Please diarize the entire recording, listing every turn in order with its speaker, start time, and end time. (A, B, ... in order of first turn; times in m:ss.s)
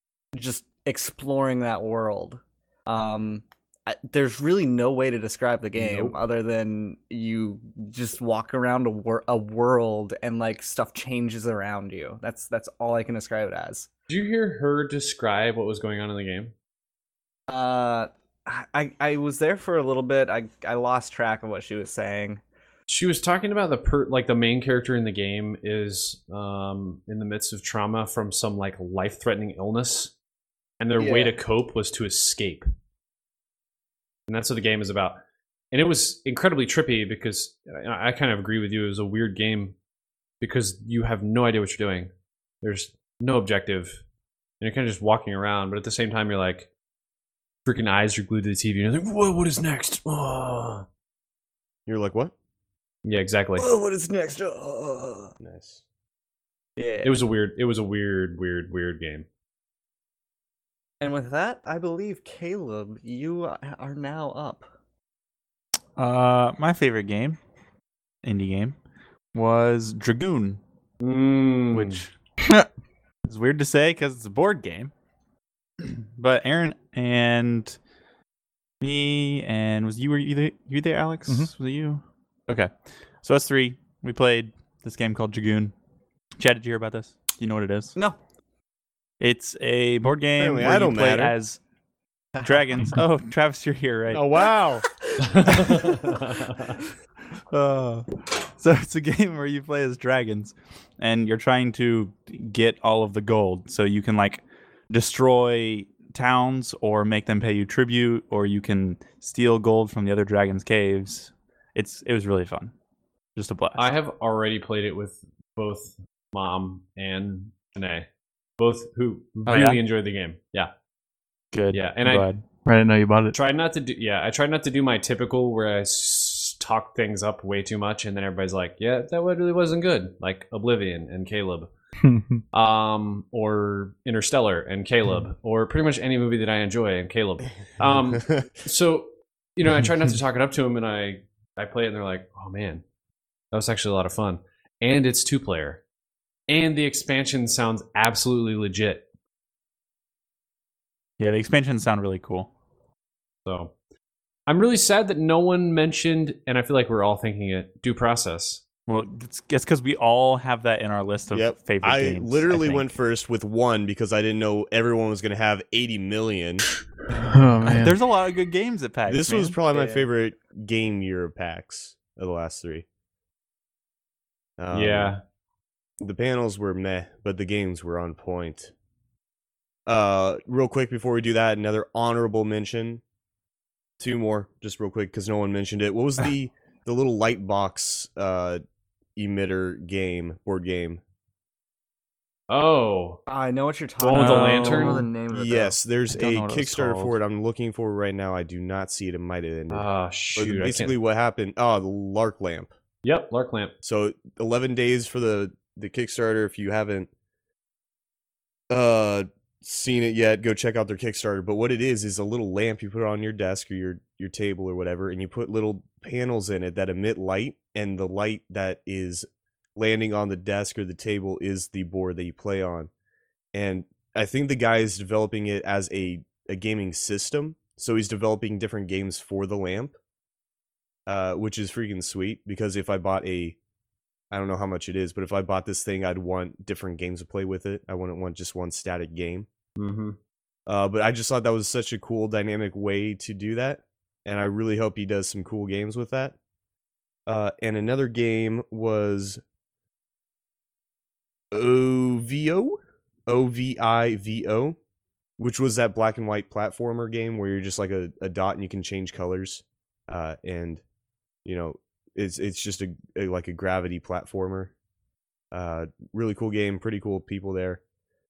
0:00.3-0:13.9 A
0:05.8-0:06.2 B
0:14.1-0:16.5 B
0:17.5-0:22.4 A
0:22.9-0:30.1 B
0:30.8-0:32.6 B
0:31.0-0:31.4 A
0:34.3-0:35.2 B
0:35.7-0:39.7 B
0:40.4-0:42.1 B
0:42.6-0:44.0 B
0:44.6-0:46.7 B
0:47.6-0:50.8 B
0:51.9-0:52.3 C
0:53.0-0:53.6 B
0:53.6-0:55.3 A
0:55.4-0:55.8 C
0:56.8-0:57.2 A
0:57.0-0:59.2 B
1:01.0-1:04.6 A
1:06.0-1:07.4 D
1:08.2-1:08.8 D
1:09.3-1:10.6 D
1:11.0-1:12.0 B
1:11.7-1:12.1 D
1:13.2-1:14.9 D
1:15.8-1:17.8 D
1:18.8-1:25.7 D
1:26.4-1:28.0 D
1:29.2-1:31.6 D
1:30.4-1:31.3 C
1:32.3-1:32.9 A
1:32.4-1:34.3 D
1:34.1-1:34.7 B
1:34.1-1:34.5 C
1:35.0-1:36.1 A
1:35.2-1:36.8 B
1:37.5-1:52.7 D
1:53.4-1:53.9 D
1:53.8-1:58.1 B
1:58.6-2:00.7 B
1:59.4-1:59.8 D
2:01.5-2:02.4 D
2:01.7-2:02.3 B
2:02.6-2:03.3 E
2:03.3-2:11.7 B
2:12.0-2:12.4 E
2:12.5-2:22.8 B
2:18.1-2:18.5 C
2:23.5-2:25.8 B
2:26.5-2:29.0 B
2:31.2-2:32.5 D
2:33.4-2:33.7 B
2:34.5-2:38.6 B
2:38.9-2:42.9 D
2:41.3-2:46.6 C
2:47.1-2:48.0 E
2:47.7-2:49.6 D
2:49.1-2:52.8 C
2:49.7-2:50.1 B
2:54.6-2:55.1 C
2:54.7-2:55.2 B
2:56.0-2:58.7 C
2:59.8-3:03.0 C
3:04.0-3:08.6 C
3:09.2-3:11.0 C
3:12.5-3:13.2 B
3:13.3-3:15.8 A
3:14.0-3:15.1 B
3:14.2-3:15.0 E
3:15.3-3:22.7 C
3:16.1-3:17.2 D
3:19.7-3:21.0 B
3:23.0-3:23.7 B
3:23.8-3:27.1 C
3:28.7-3:42.9 C
3:43.5-3:50.0 C
3:51.1-3:53.6 C
3:54.3-3:59.5 C
3:59.8-4:00.2 B
4:00.7-4:06.4 C
4:07.3-4:09.4 C
4:11.5-4:14.8 C
4:15.4-4:20.8 C
4:21.4-4:24.7 C
4:25.5-4:27.8 C